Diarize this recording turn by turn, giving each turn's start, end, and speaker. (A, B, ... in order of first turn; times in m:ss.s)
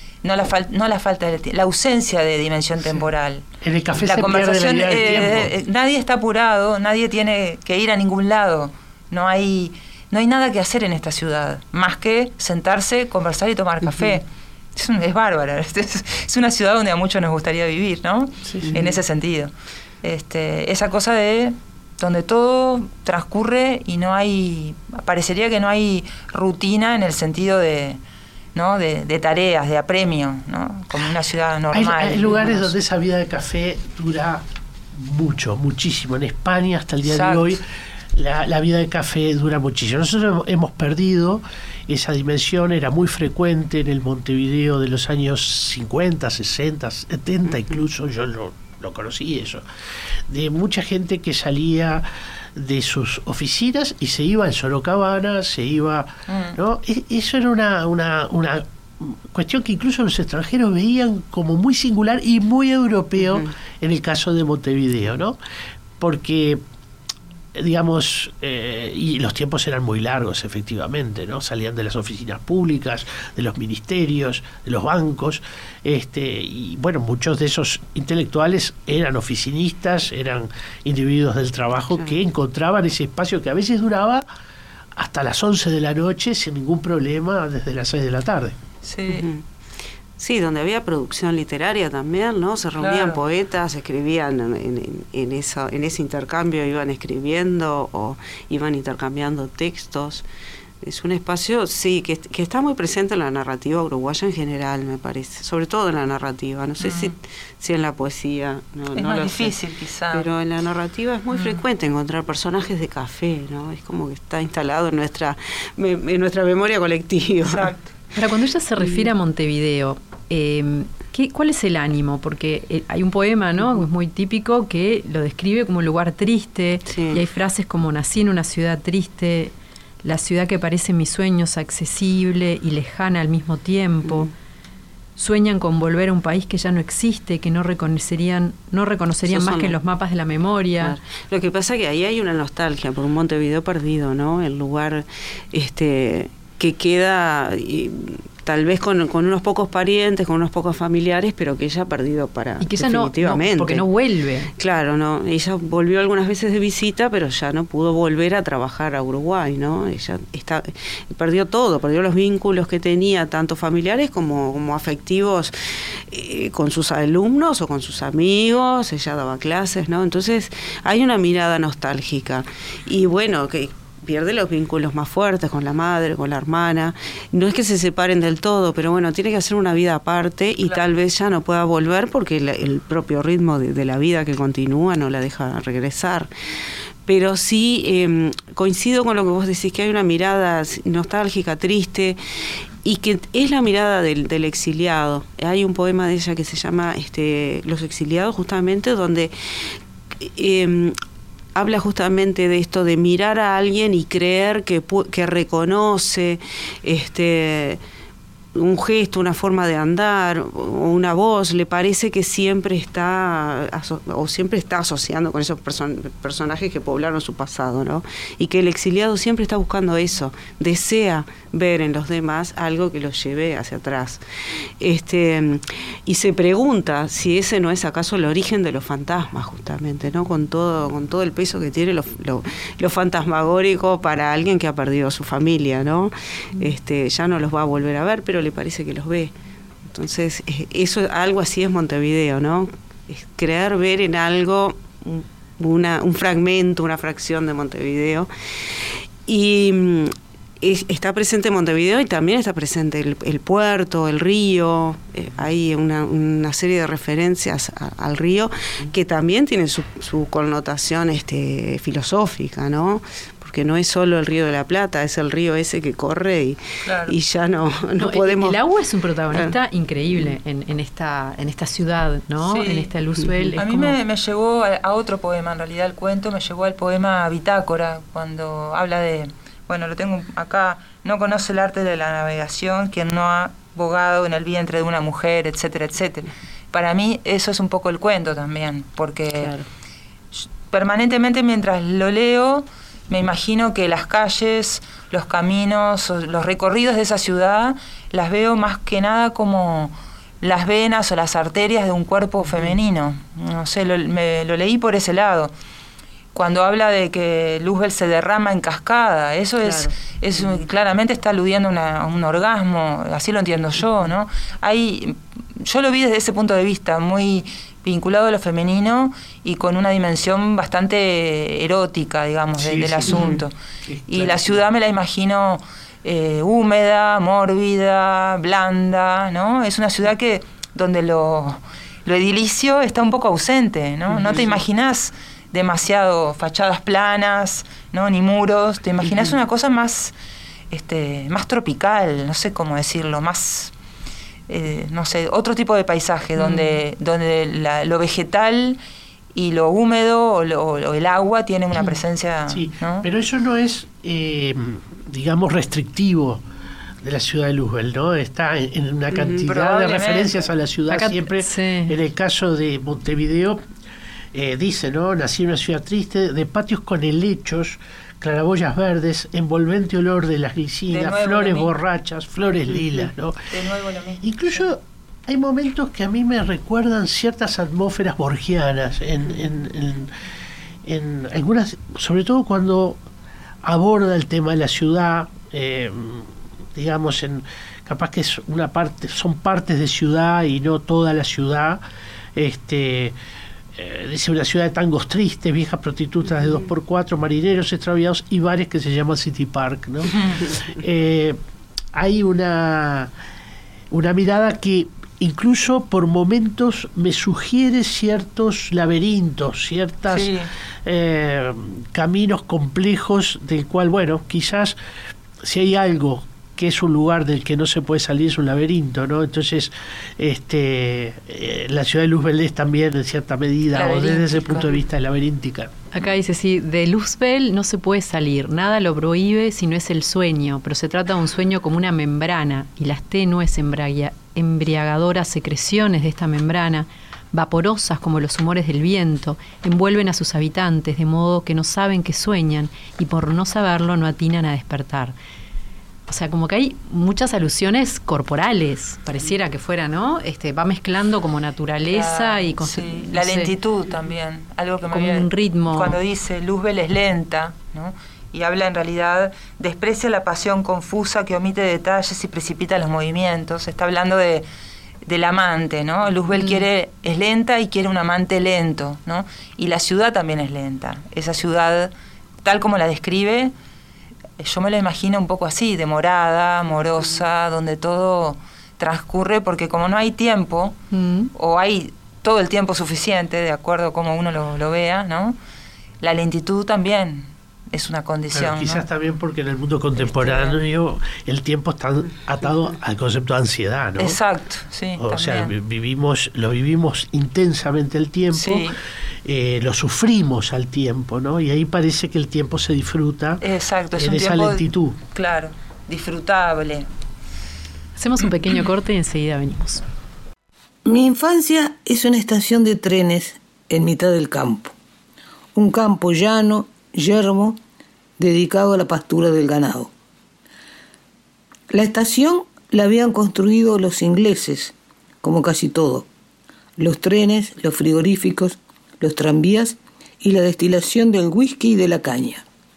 0:00.2-0:03.4 A
0:03.6-0:05.5 B
0:04.0-0:19.5 A
0:13.8-0:14.2 C
0:20.0-0:28.0 A
0:28.6-0:32.7 A
0:31.7-0:49.6 B
0:37.0-0:37.6 A
0:50.3-1:05.4 B
0:56.3-0:56.6 A
1:03.2-1:03.5 C
1:06.0-1:06.6 B
1:07.5-1:24.3 B
1:25.0-1:28.6 B
1:28.8-1:29.3 A
1:29.1-1:29.4 C
1:30.2-1:40.2 C
1:32.8-1:33.2 A
1:40.8-1:49.6 C
1:46.8-1:47.1 A
1:48.9-1:50.3 A
1:50.1-1:57.7 C
1:51.3-1:51.6 A
1:57.4-1:57.9 A
1:58.2-2:09.5 D
2:06.9-2:07.2 C
2:10.0-2:14.3 D
2:15.2-2:21.0 D
2:19.3-2:19.8 C
2:20.8-2:33.9 C
2:32.6-2:34.5 D
2:34.6-3:06.3 C
3:07.0-3:12.2 C
3:12.8-3:21.0 C
3:21.6-3:27.8 C
3:28.6-3:59.3 C
3:59.9-4:28.6 C
4:26.8-4:27.2 A
4:28.0-4:34.0 D
4:32.4-4:32.9 A
4:33.2-4:33.6 C
4:33.6-4:49.6 A
4:49.4-4:49.7 C
4:50.4-5:05.5 A
5:02.5-5:02.8 C
5:06.3-5:23.5 A
5:09.6-5:10.6 C
5:22.6-5:23.3 B
5:23.1-5:23.4 C
5:23.9-5:24.6 B
5:24.1-5:40.1 A
5:34.1-5:34.6 C
5:39.0-5:39.4 C
5:40.7-5:43.7 A
5:44.5-5:48.8 A
5:49.4-5:53.1 A
5:52.5-5:56.4 B
5:57.0-6:03.6 B
5:59.1-5:59.4 C
5:59.3-6:00.4 A
6:00.9-6:02.0 D
6:04.3-6:13.5 B
6:10.9-6:11.7 A
6:13.5-6:14.6 A
6:14.2-6:20.1 B
6:20.8-6:23.0 B
6:23.6-6:31.8 B
6:32.4-6:33.2 B
6:33.8-6:41.4 B
6:40.1-6:40.4 A
6:41.9-6:43.1 B
6:43.9-6:54.8 B
6:50.1-6:50.5 A
6:55.4-7:05.7 B
7:03.7-7:04.7 A
7:05.9-7:25.2 D
7:26.1-7:33.5 D
7:31.9-7:44.5 A
7:34.9-7:36.0 D
7:45.0-7:51.9 A
7:46.4-7:46.6 D
7:52.4-7:53.5 A
7:54.4-8:00.8 A
8:00.9-8:01.3 D
8:01.3-8:05.4 A
8:06.0-8:08.8 A
8:08.3-8:14.2 B
8:10.0-8:10.6 A
8:14.0-8:15.5 A
8:15.0-8:23.4 B
8:18.3-8:18.8 A
8:23.4-8:26.9 A
8:24.0-8:25.0 B
8:28.0-8:29.8 D
8:30.8-8:34.7 E
8:35.6-8:37.6 E
8:38.2-8:39.9 E
8:41.7-8:46.1 E
8:46.8-8:52.5 E